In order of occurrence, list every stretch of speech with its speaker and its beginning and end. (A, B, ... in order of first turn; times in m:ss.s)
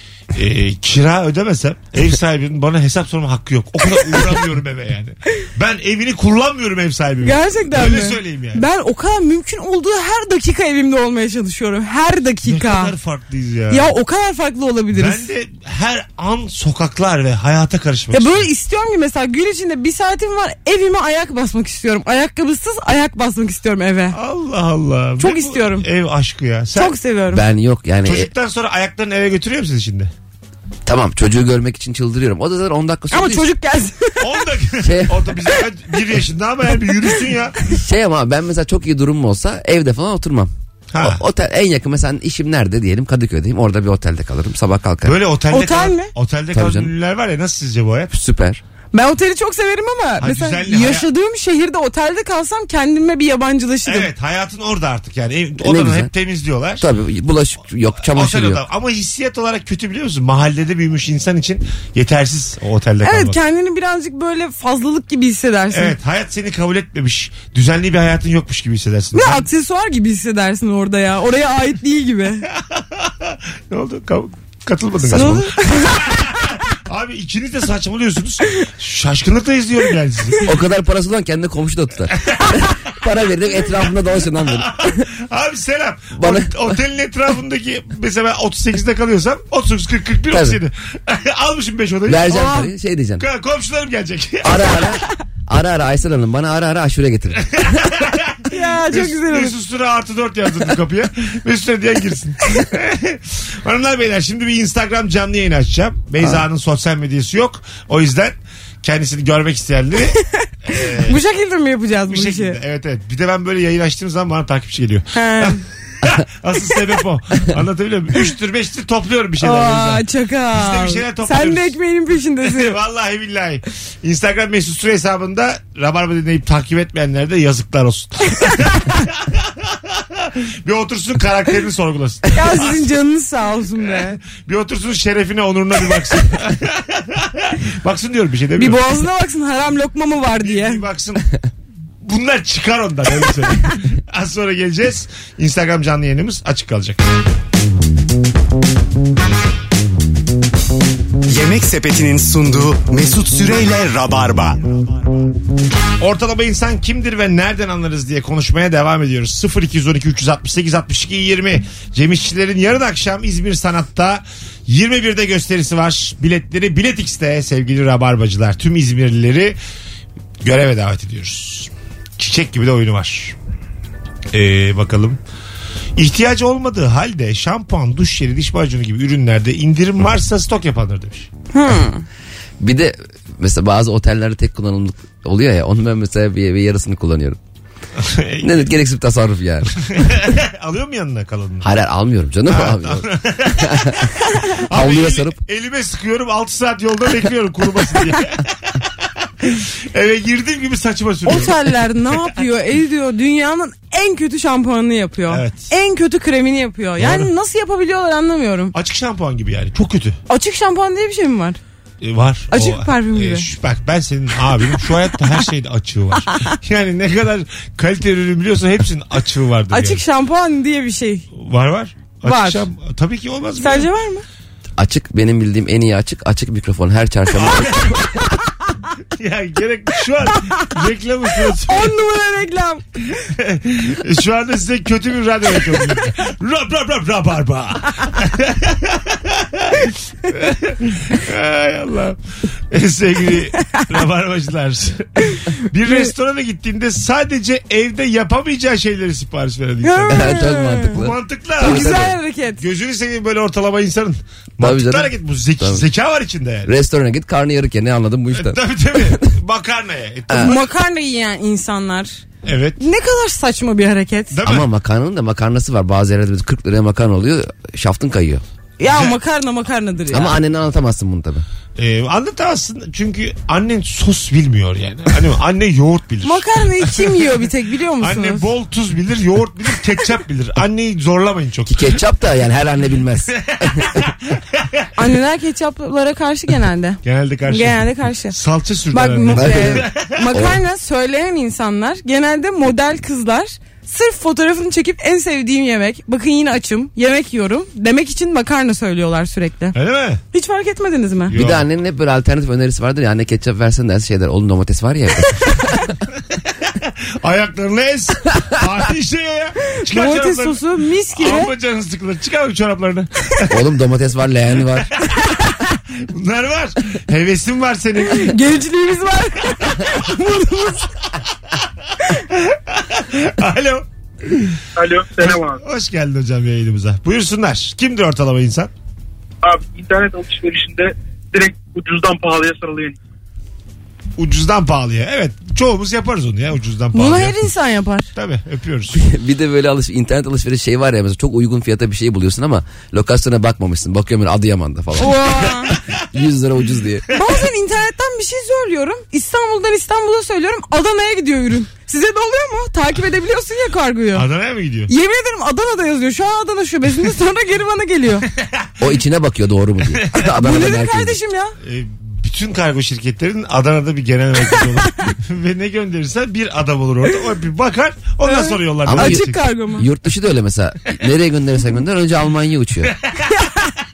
0:00.3-0:08.6 A
0:07.2-0:12.9 B
0:12.4-0:13.9 A
0:13.7-0:15.2 B
0:14.9-0:18.5 A
0:18.1-0:24.2 B
0:24.1-0:27.0 A
0:25.2-0:25.9 B
0:26.8-0:27.4 B
0:27.3-0:28.3 C
0:28.0-0:30.1 A
0:30.8-0:33.4 C
0:33.1-0:34.2 B
0:34.2-0:37.6 A
0:34.8-0:35.3 C
0:37.7-0:45.2 C
0:40.9-0:41.2 A
0:45.0-0:48.1 A
0:45.5-0:46.1 B
0:46.5-0:46.9 C
0:48.1-0:48.6 C
0:48.9-0:54.1 B
0:50.2-0:51.1 A
0:53.8-0:56.9 A
0:55.6-0:56.1 C
0:56.8-0:58.6 C
0:58.0-1:03.4 A
1:03.0-1:06.0 B
1:05.7-1:09.5 A
1:09.1-1:12.4 B
1:12.6-1:20.5 A
1:15.0-1:15.5 C
1:15.1-1:16.3 B
1:20.5-1:25.0 C
1:24.4-1:32.6 A
1:26.2-1:26.6 C
1:30.3-1:30.6 C
1:32.1-1:33.2 C
1:32.3-1:32.6 B
1:33.2-1:34.9 A
1:34.4-1:37.6 C
1:37.5-1:51.2 A
1:38.5-1:39.5 B
1:50.7-1:52.6 B
1:52.1-2:01.8 A
1:55.1-1:55.6 B
1:59.4-2:02.7 B
2:02.4-2:12.9 A
2:12.3-2:14.2 B
2:13.8-2:18.9 A
2:18.6-2:20.8 B
2:20.4-2:21.3 A
2:22.0-2:27.0 A
2:31.3-2:34.6 D
2:36.0-2:49.6 A
2:50.4-2:53.4 A
2:54.3-2:55.2 A
2:56.0-3:01.3 A
3:01.5-3:02.0 B
3:02.6-3:07.4 C
3:08.0-3:08.7 A
3:08.4-3:09.8 C
3:09.7-3:11.7 A
3:11.6-3:14.1 C
3:12.5-3:14.0 A
3:14.6-3:21.7 A
3:14.7-3:15.4 C
3:21.2-3:28.7 B
3:25.3-3:25.7 A
3:27.0-3:27.3 A
3:28.7-3:30.2 A
3:30.3-3:31.6 B
3:32.0-3:40.0 A
3:32.5-3:33.5 B
3:39.7-3:41.2 B
3:41.4-3:43.9 A
3:42.2-3:42.6 B
3:43.6-3:44.2 B
3:44.8-3:48.1 C
3:47.4-3:48.2 A
3:49.2-3:51.9 A
3:50.3-3:50.7 B
3:51.4-3:52.8 B
3:53.2-4:02.2 A
4:02.7-4:12.1 A
4:09.8-4:11.0 B
4:10.1-4:12.2 C
4:11.6-4:12.6 B
4:12.6-4:16.7 A
4:14.6-4:15.8 C
4:16.7-4:19.3 C
4:18.3-4:20.6 A
4:20.3-4:20.6 C
4:20.4-4:22.2 B
4:22.4-4:22.8 A
4:22.8-4:24.4 B
4:24.3-4:24.7 A
4:24.4-4:28.4 C
4:28.8-4:30.4 B
4:28.9-4:29.2 A
4:30.1-4:31.4 C
4:31.8-4:37.4 A
4:36.2-4:38.4 B
4:38.0-4:41.9 A
4:41.7-4:43.9 C
4:43.3-4:44.9 A
4:45.0-4:48.4 B
4:47.0-4:50.3 A
4:48.9-4:59.8 B
4:49.3-4:50.6 C
4:59.7-5:00.2 A
5:00.3-5:01.3 B
5:01.3-5:01.7 A
5:01.4-5:06.0 C
5:06.6-5:10.6 A
5:09.9-5:11.5 B
5:11.1-5:13.6 A
5:13.5-5:14.9 C
5:14.8-5:18.4 A
5:18.0-5:21.0 B
5:19.7-5:20.0 A
5:22.2-5:24.6 A
5:24.8-5:25.6 E
5:25.2-5:28.7 A
5:29.4-5:33.0 E
5:34.2-5:37.5 A
5:36.9-5:38.1 B
5:38.2-5:39.0 A
5:38.9-5:47.0 C
5:45.0-5:45.8 B
5:47.1-5:54.2 B
5:54.1-5:54.9 A
5:54.9-5:58.3 B
5:58.8-6:01.2 C
6:00.1-6:01.6 B
6:01.6-6:09.5 A
6:08.2-6:09.9 B
6:08.9-6:12.9 C
6:12.8-6:13.6 A
6:13.3-6:13.7 B